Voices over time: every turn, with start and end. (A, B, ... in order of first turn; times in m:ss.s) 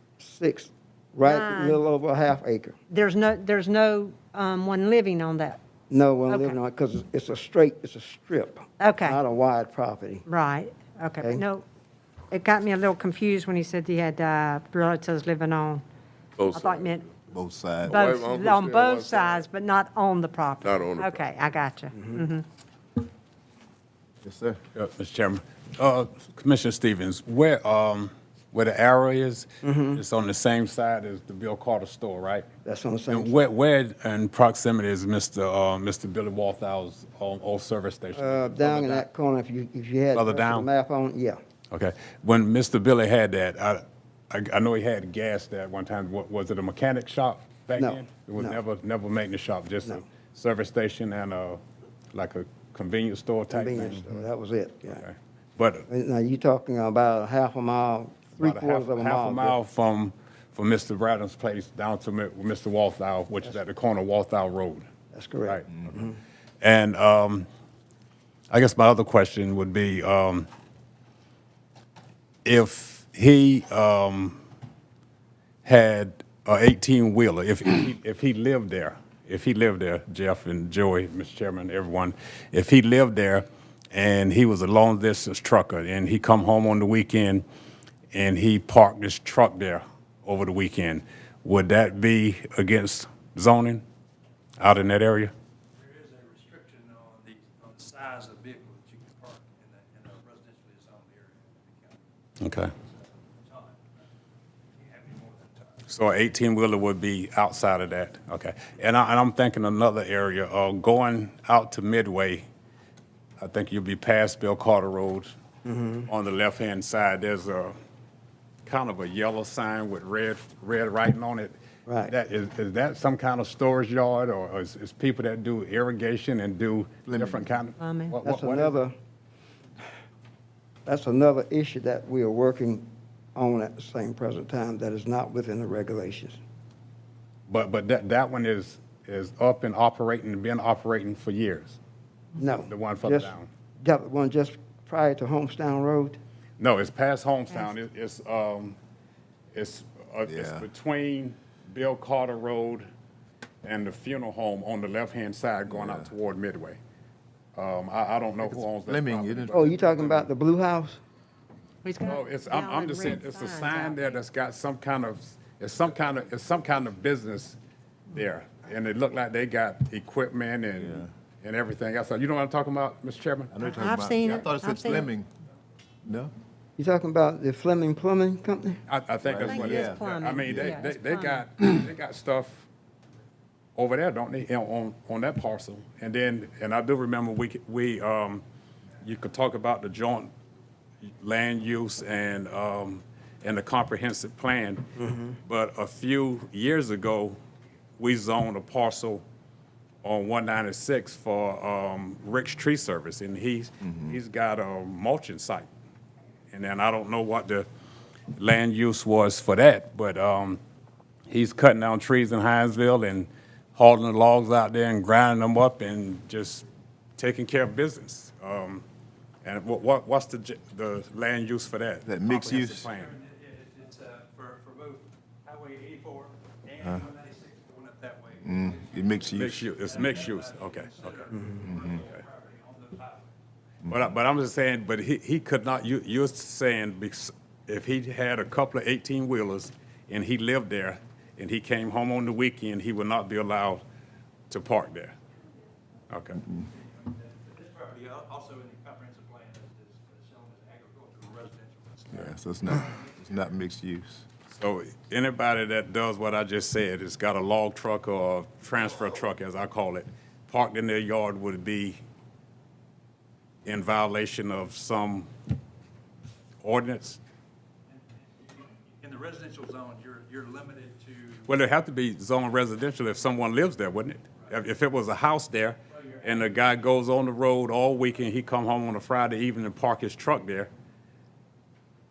0:00.2-0:02.8 A
0:01.2-0:01.8 B
0:02.9-0:05.6 B
0:05.9-0:10.2 A
0:06.2-0:06.6 B
0:08.8-0:09.2 B
0:10.2-0:11.6 B
0:11.2-0:11.4 A
0:12.3-0:15.8 B
0:16.4-0:17.0 C
0:16.5-0:17.1 B
0:17.3-0:18.1 D
0:17.9-0:19.5 C
0:17.9-0:22.4 B
0:20.6-0:21.5 C
0:21.9-0:22.2 A
0:24.2-0:24.6 D
0:24.7-0:32.4 E
0:29.6-0:30.0 A
0:32.6-0:33.4 A
0:33.1-0:39.1 E
0:38.1-0:41.4 A
0:40.1-0:40.7 E
0:41.7-0:51.6 E
0:47.7-0:48.6 A
0:52.1-0:54.3 E
0:53.5-0:55.0 A
0:54.9-0:55.9 E
0:55.9-0:59.6 A
0:58.4-1:04.9 E
1:05.1-1:06.2 A
1:06.6-1:07.5 E
1:08.5-1:10.5 E
1:12.4-1:14.4 E
1:15.6-1:27.4 E
1:28.1-1:33.8 E
1:34.6-1:35.3 E
1:35.8-1:42.0 F
1:42.4-1:42.7 E
1:43.4-1:43.8 F
1:44.8-1:45.8 F
1:45.9-1:52.4 E
1:53.4-1:55.3 E
1:55.6-1:56.1 A
1:56.1-1:57.7 E
1:58.6-2:08.8 E
2:01.8-2:02.1 A
2:07.1-2:07.4 D
2:07.8-2:08.2 B
2:08.2-2:08.9 A
2:10.8-2:16.4 A
2:17.5-2:21.8 E
2:22.4-2:26.2 A
2:22.6-2:23.5 E
2:26.6-2:28.8 E
2:29.5-2:32.9 E
2:30.2-2:30.7 D
2:33.6-2:36.8 E
2:35.7-2:36.1 D
2:37.5-2:40.3 E
2:38.4-2:39.7 D
2:39.5-2:41.0 A
2:41.8-2:44.2 B
2:42.0-2:47.6 E
2:48.1-2:53.6 E
2:50.8-2:51.1 D
2:53.5-2:55.3 D
2:53.6-2:55.1 B
2:56.0-2:56.3 D
2:56.8-2:58.8 A
2:58.9-3:02.6 E
2:59.2-3:00.8 D
2:59.4-3:01.4 B
3:03.8-3:08.4 E
3:09.0-3:10.3 E
3:11.0-3:14.9 E
3:15.0-3:15.4 A
3:15.4-3:17.4 E
3:18.0-3:19.2 E
3:20.0-3:25.7 E
3:26.5-3:27.7 E
3:28.3-3:30.6 E
3:31.3-3:36.7 E
3:37.2-3:38.8 E
3:39.4-3:43.2 E
3:42.0-3:42.9 D
3:43.0-3:53.3 F
3:46.8-3:47.0 D
3:48.4-3:50.0 D
3:49.3-3:51.3 E
3:51.6-3:52.0 D
3:53.8-3:54.1 D
3:53.9-4:03.8 E
4:04.5-4:05.2 E
4:06.1-4:06.4 E
4:06.7-4:12.9 F
4:12.1-4:14.2 D
4:14.5-4:22.0 E
4:23.6-4:25.3 E
4:26.6-4:27.2 E
4:28.4-4:31.5 F
4:31.5-4:40.7 E
4:36.0-4:36.5 F